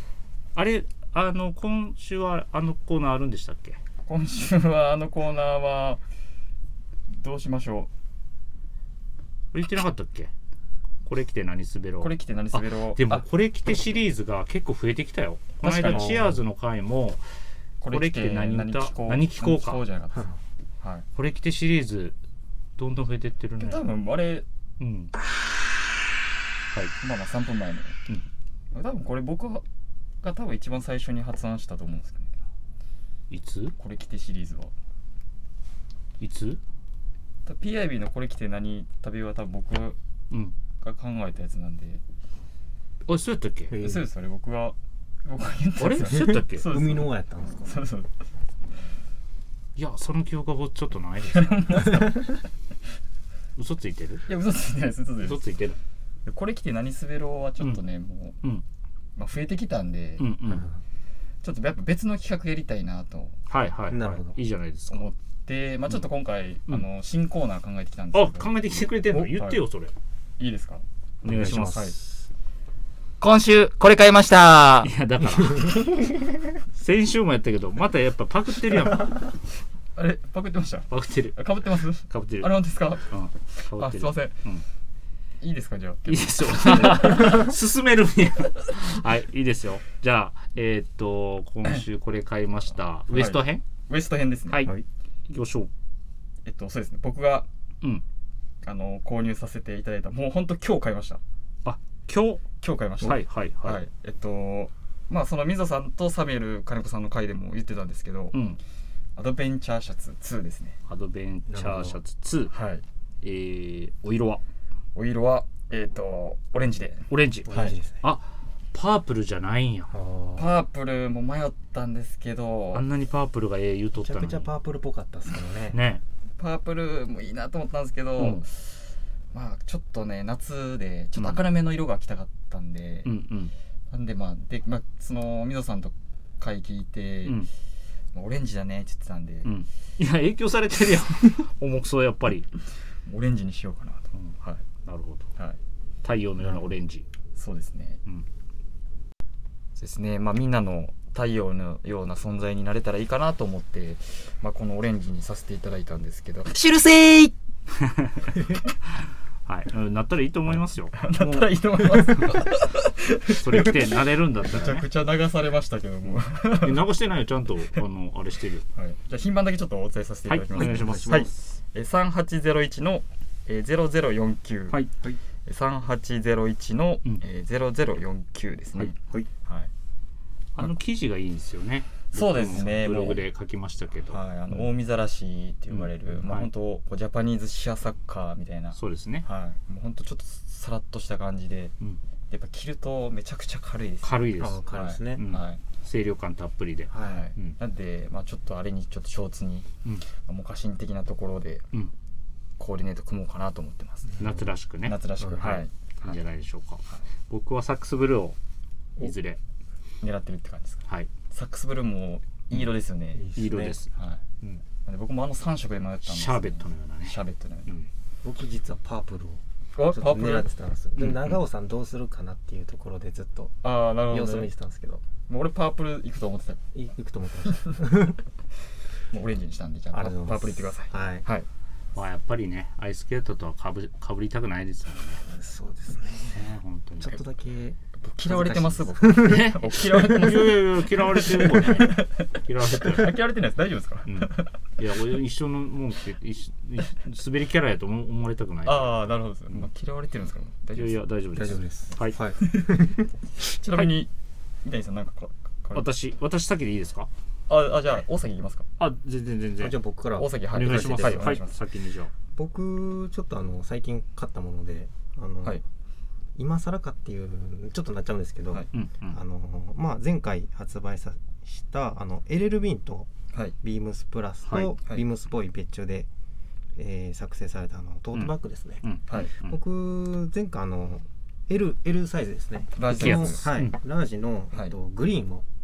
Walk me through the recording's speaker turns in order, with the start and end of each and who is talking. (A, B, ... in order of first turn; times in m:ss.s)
0:00.5-0:03.8 A
0:04.0-0:06.0 B
0:07.1-0:07.9 B
0:09.5-0:10.3 A
0:11.0-0:17.2 A
0:12.0-0:13.2 B
0:15.6-0:16.3 B
0:15.9-0:16.4 C
0:17.8-0:20.3 B
0:17.9-0:19.8 A
0:21.1-0:22.2 A
0:22.8-0:23.9 A
0:23.6-0:24.4 B
0:24.8-0:25.1 A
0:27.0-0:28.0 B
0:28.7-0:29.6 B
0:30.2-0:32.4 B
0:33.3-0:33.7 A
0:33.8-0:34.7 B
0:36.2-0:36.6 A
0:37.4-0:40.0 B
0:40.8-0:42.0 B
0:43.1-0:43.7 A
0:43.7-0:44.0 C
0:43.8-0:47.1 B
0:45.8-0:46.7 A
0:46.1-0:47.8 C
0:47.6-0:48.1 B
0:49.8-0:52.0 A
0:51.3-0:52.4 B
0:53.6-0:54.2 A
0:54.2-0:55.5 B
0:55.2-0:55.8 A
0:56.2-0:58.4 B
0:59.2-1:00.6 B
1:00.2-1:00.7 A
1:01.4-1:03.5 B
1:03.5-1:05.1 A
1:03.9-1:04.4 C
1:04.9-1:09.6 B
1:08.1-1:09.9 A
1:10.4-1:12.0 B
1:11.2-1:11.9 A
1:11.2-1:12.0 C
1:13.2-1:14.9 D
1:13.2-1:14.7 B
1:14.8-1:15.8 A
1:16.7-1:19.3 A
1:19.9-1:24.4 B
1:20.9-1:21.4 A
1:22.0-1:22.5 A
1:23.1-1:24.6 A
1:25.4-1:27.5 B
1:26.0-1:33.6 A
1:33.1-1:34.7 B
1:34.5-1:34.7 A
1:35.3-1:35.7 A
1:36.4-1:37.5 B
1:38.6-1:41.2 B
1:41.6-1:42.4 A
1:42.6-1:48.4 B
1:43.0-1:43.8 A
1:48.3-1:48.6 A
1:49.2-1:50.8 B
1:50.9-1:52.5 A
1:51.5-1:52.0 C
1:52.5-1:52.8 B
1:53.2-1:54.4 A
1:54.9-1:57.7 B
1:57.1-1:59.9 A
1:57.4-1:58.0 C
1:59.9-2:00.5 C
2:00.3-2:02.8 B
2:02.7-2:04.5 A
2:04.0-2:05.8 C
2:05.7-2:06.0 A
2:06.4-2:08.8 B
2:08.2-2:08.4 A
2:09.3-2:13.1 B
2:11.2-2:11.4 A
2:13.0-2:13.5 A
2:13.9-2:17.5 B
2:17.2-2:17.5 A
2:18.1-2:19.5 B
2:19.4-2:22.5 A
2:23.0-2:24.6 B
2:24.1-2:25.3 A
2:26.0-2:27.0 A
2:27.3-2:28.0 B
2:29.8-2:36.5 B
2:36.5-2:37.3 D
2:37.8-2:38.3 A
2:39.4-2:42.4 A
2:40.5-2:46.9 B
2:43.3-2:44.9 A
2:46.5-2:48.6 A
2:48.7-2:54.8 B
2:50.3-2:51.3 A
2:50.5-2:51.3 C
2:55.4-2:59.7 B
3:00.5-3:04.7 A
3:02.1-3:03.2 B
3:04.1-3:11.7 B
3:05.7-3:06.5 A
3:08.8-3:09.3 A
3:12.3-3:15.6 B
3:14.0-3:17.6 A
3:14.4-3:15.2 C
3:16.9-3:17.3 C
3:17.0-3:21.6 B
3:22.6-3:24.2 B
3:24.1-3:24.4 C
3:24.2-3:28.4 A
3:24.8-3:26.2 B
3:25.2-3:25.5 C
3:29.0-3:29.4 A
3:30.0-3:33.3 B
3:33.1-3:33.8 C
3:33.3-3:34.6 A
3:33.9-3:34.2 B
3:34.8-3:37.7 B
3:36.0-3:37.9 A
3:38.2-3:45.0 C
3:39.8-3:40.5 B
3:41.0-3:41.3 A
3:43.6-3:44.5 B
3:45.3-3:46.6 B
3:46.7-3:48.2 C
3:49.1-3:51.5 B
3:49.9-3:51.2 C
3:51.9-3:55.2 A
3:55.3-3:56.4 C
3:56.3-3:57.2 A
3:57.0-4:00.1 C
3:58.0-4:04.5 B
3:59.2-4:03.2 A
4:04.0-4:09.7 A
4:08.6-4:12.0 B
4:10.7-4:12.2 A
4:11.3-4:13.1 C
4:13.4-4:14.1 B
4:14.6-4:15.9 B
4:15.7-4:17.1 A
4:17.5-4:18.7 B
4:18.8-4:19.8 A
4:19.6-4:21.4 C
4:20.1-4:21.6 B
4:20.5-4:22.1 A
4:22.4-4:25.6 C
4:26.4-4:33.1 C
4:28.7-4:29.2 A
4:33.6-4:36.1 C
4:34.4-4:34.7 A
4:36.8-4:38.8 C
4:38.1-4:39.5 A
4:39.1-4:39.3 B
4:39.4-4:45.4 C
4:42.7-4:43.5 B
4:42.9-4:43.7 A